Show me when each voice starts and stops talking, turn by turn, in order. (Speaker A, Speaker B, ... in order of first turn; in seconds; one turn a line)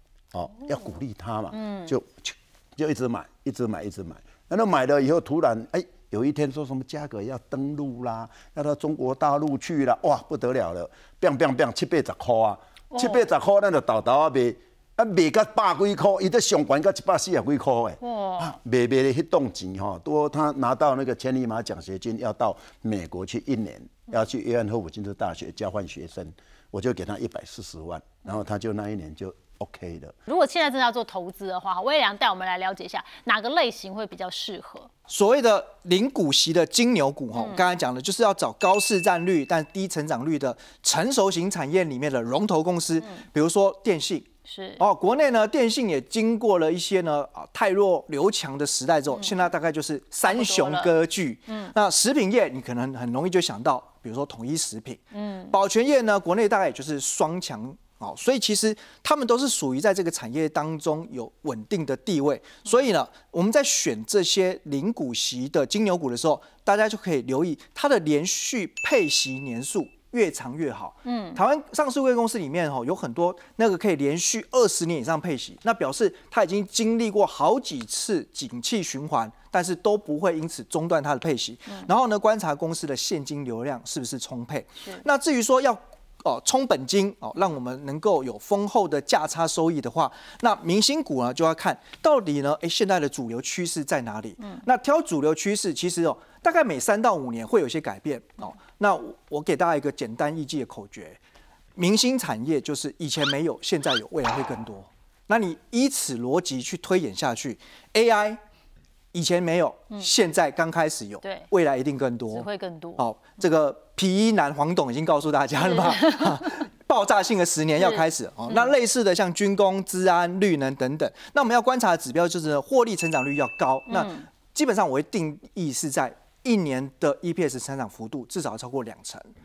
Speaker A: 0.3-30.1
Speaker B: 1.5-1.9
Speaker B: 12.9-13.2
Speaker B: 18.0-18.6
Speaker B: 30.3-34.9
Speaker C: 35.1-44.3
Speaker B: 37.4-37.6
Speaker B: 44.5-44.8
Speaker C: 44.8-101.2
Speaker B: 50.2-50.9
Speaker B: 55.1-55.6
Speaker B: 71.0-71.4
Speaker C: 101.8-108.4
Speaker C: 109.1-112.5
Speaker B: 112.3-113.0
Speaker C: 113.0-129.3
Speaker B: 115.6-116.4
Speaker B: 117.8-118.7
Speaker B: 123.9-124.2